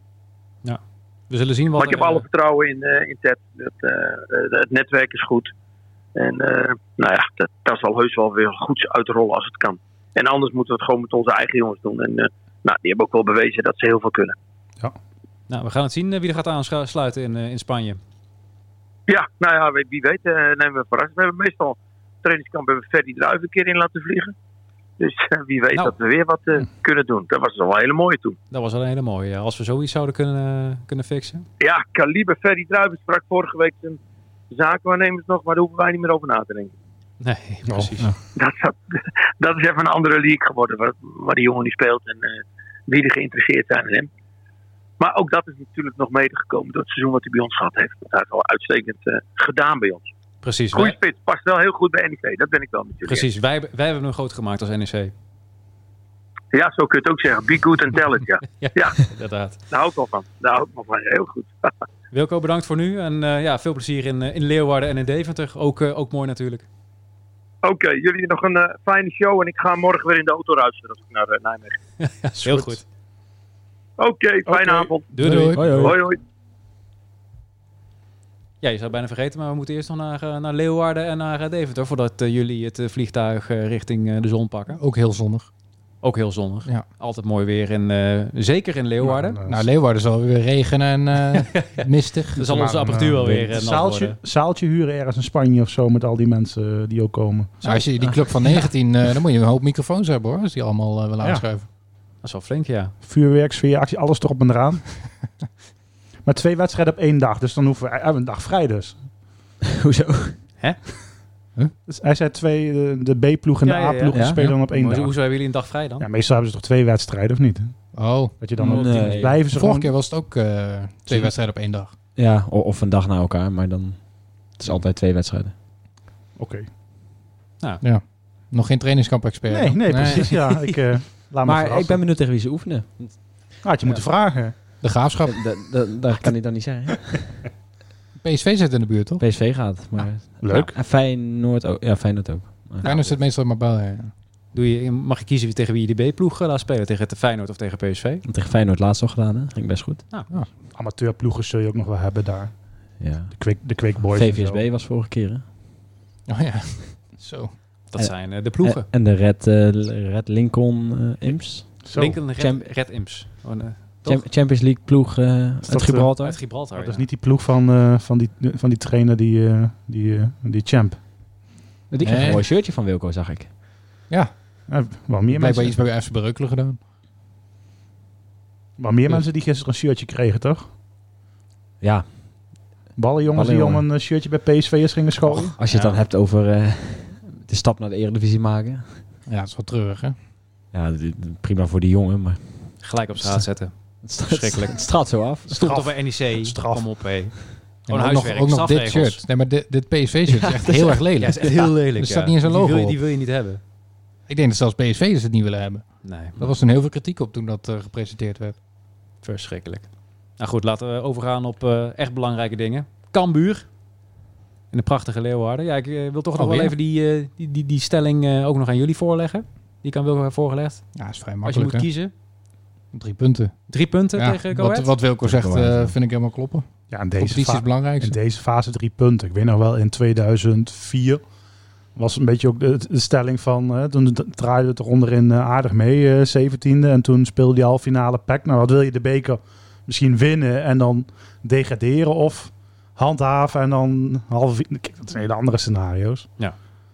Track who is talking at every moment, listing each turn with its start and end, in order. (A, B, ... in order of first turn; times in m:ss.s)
0:00.6-0:02.2 A
0:01.8-0:05.5 B
0:06.1-0:14.4 B
0:15.5-0:18.0 A
0:19.1-0:24.3 B
0:25.0-0:28.4 B
0:28.5-0:31.4 A
0:31.6-0:34.0 B
0:34.5-0:36.7 B
0:37.2-0:38.1 A
0:37.7-0:38.1 C
0:38.4-0:44.1 B
0:45.0-0:50.1 B
0:50.4-0:50.9 A
0:50.7-0:53.3 B
0:53.0-0:55.1 A
0:56.5-0:59.0 B
0:58.6-0:59.6 A
0:59.7-1:01.7 B
1:02.1-1:06.6 A
1:07.6-1:11.8 B
1:12.0-1:12.8 A
1:12.4-1:12.8 C
1:14.0-1:15.1 B
1:14.5-1:14.9 C
1:15.1-1:15.9 A
1:15.2-1:15.6 D
1:15.6-1:16.0 E
1:15.7-1:16.2 B
1:18.6-1:24.8 A
1:24.8-1:25.5 D
1:26.0-1:29.4 A
1:29.0-1:29.7 C
1:29.5-1:32.7 D
1:31.4-1:31.8 A
1:32.4-1:34.2 A
1:32.4-1:37.7 C
1:37.6-1:41.7 D
1:42.2-1:42.9 A
1:43.0-1:44.9 C
1:46.2-1:49.0 C
1:49.8-1:50.4 E
1:51.9-1:55.2 C
1:53.6-1:56.0 A
1:54.1-1:54.4 E
1:56.0-1:57.8 C
1:57.9-2:01.9 D
1:58.4-1:59.9 C
1:58.6-1:59.4 E
2:02.2-2:05.5 E
2:06.4-2:06.7 C
2:07.8-2:10.5 D
2:09.5-2:12.0 C
2:11.4-2:13.2 E
2:13.6-2:14.6 C
2:14.8-2:15.5 D
2:15.2-2:17.4 E
2:18.2-2:19.2 D
2:19.2-2:23.1 E
2:20.4-2:20.7 C
2:22.8-2:24.1 D
2:24.5-2:28.2 A
2:28.2-2:30.0 E
2:30.7-2:32.6 C
2:33.0-2:35.4 E
2:33.3-2:34.6 C
2:36.3-2:37.5 D
2:37.9-2:38.9 A
2:38.0-2:42.7 E
2:41.8-2:42.2 C
2:41.9-2:44.3 A
2:44.0-2:46.4 E
2:45.6-2:51.0 C
2:46.2-2:47.0 A
2:51.9-2:53.5 E
2:52.0-2:52.4 D
2:54.7-2:55.8 C
2:55.3-2:56.8 D
2:58.8-3:00.7 C
3:01.8-3:02.0 E
3:03.0-3:05.5 C
3:03.3-3:03.9 E
3:05.3-3:09.0 E
3:05.6-3:06.0 A
3:09.3-3:10.2 D
3:10.7-3:12.7 E
3:12.8-3:19.2 A
3:14.0-3:15.6 E
3:15.5-3:16.9 C
3:17.9-3:23.0 D
3:20.3-3:21.7 E
3:21.2-3:23.6 A
3:24.3-3:28.6 D
3:26.0-3:26.4 A
3:29.2-3:33.7 A
3:34.7-3:40.8 A
3:36.4-3:36.7 D
3:40.9-3:41.9 D
3:41.4-3:42.1 A
3:42.9-3:48.2 D
3:43.7-3:44.9 A
3:45.2-3:45.9 E
3:46.9-3:51.2 C
3:51.9-4:06.3 C